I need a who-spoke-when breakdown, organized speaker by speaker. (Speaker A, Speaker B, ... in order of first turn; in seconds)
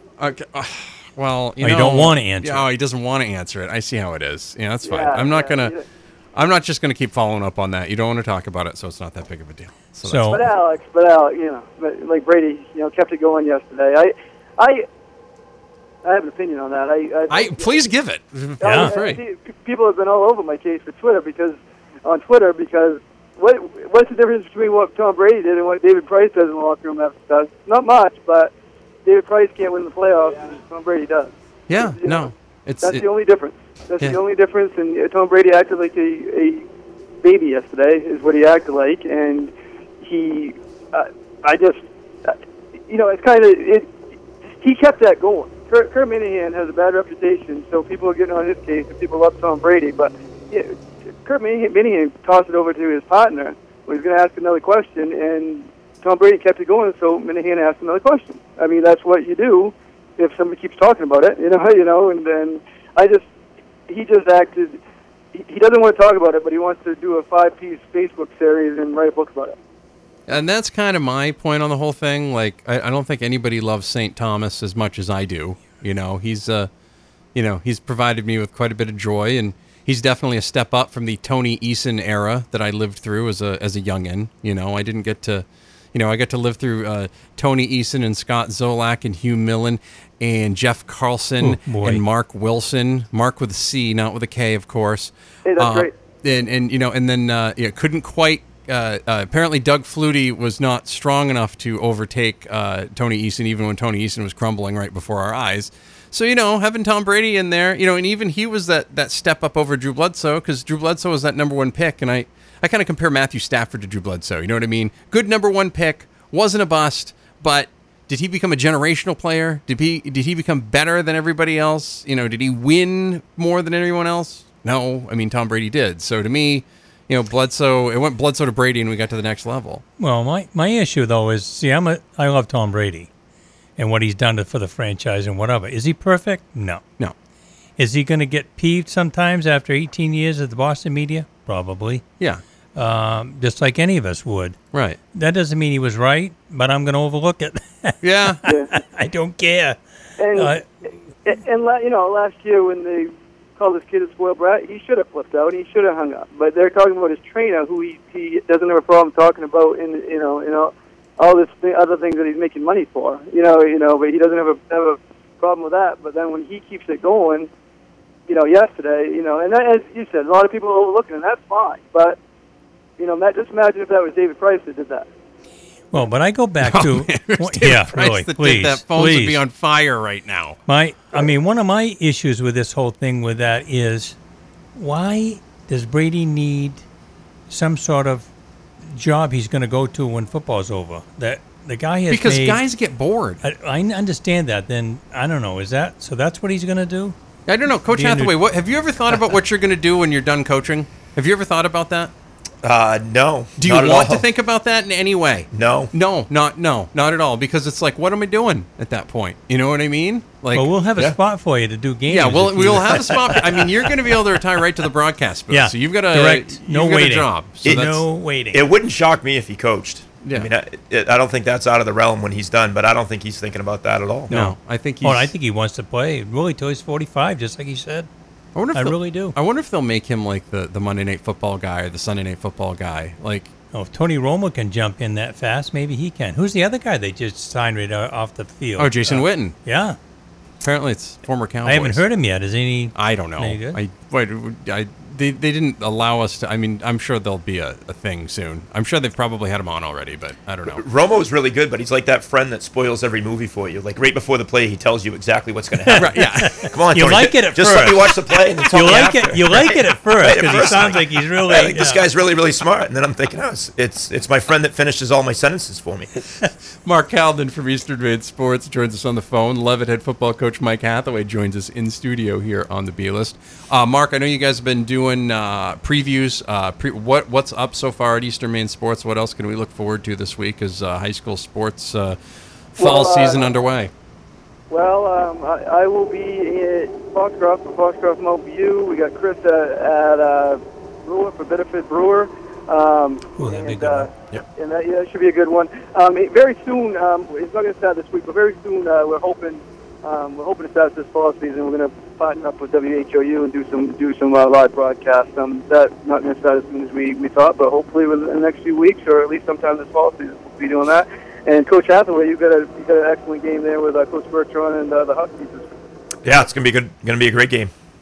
Speaker A: 0.2-5.7, 6.4-10.4, 17.3-19.2, 31.7-33.0, 70.3-76.7, 77.3-129.8, 144.7-145.0, 148.0-148.4, 176.6-180.6, 192.1-193.4, 197.5-202.1, 203.6-210.7, 212.1-218.0, 220.2-220.5, 224.3-225.3, 228.6-233.5, 238.8-239.6, 240.6-242.0, 243.0-250.8, 255.9-256.7, 260.4-260.9, 266.8-282.2, 282.8-283.9
Speaker B: 1.6-2.7, 10.0-10.4, 18.6-19.0, 91.4-92.0, 130.0-133.1, 133.8-136.8, 137.8-142.0, 142.8-144.6, 145.1-150.6, 175.9-179.4, 180.7-184.2, 184.8-186.8, 187.5-188.3, 188.8-192.6, 193.4-197.2, 197.8-198.3, 210.5-213.3, 215.5-218.6, 224.3-228.1, 228.7-229.3, 233.7-240.0, 241.7-243.8, 255.8-262.1, 293.4-294.1
Speaker C: 4.8-5.8, 10.3-14.8, 16.0-17.7, 18.6-28.5, 29.1-32.3, 32.8-36.6, 37.2-42.4, 42.9-43.9, 44.6-63.3, 63.9-64.8, 65.3-69.6, 95.5-95.9, 148.4-148.7, 150.2-167.5, 168.3-172.2, 173.0-175.1, 282.8-283.5, 284.7-315.7
Speaker D: 202.6-204.3, 205.5-205.9, 212.9-213.4, 217.6-224.3, 250.7-266.1, 316.2-317.7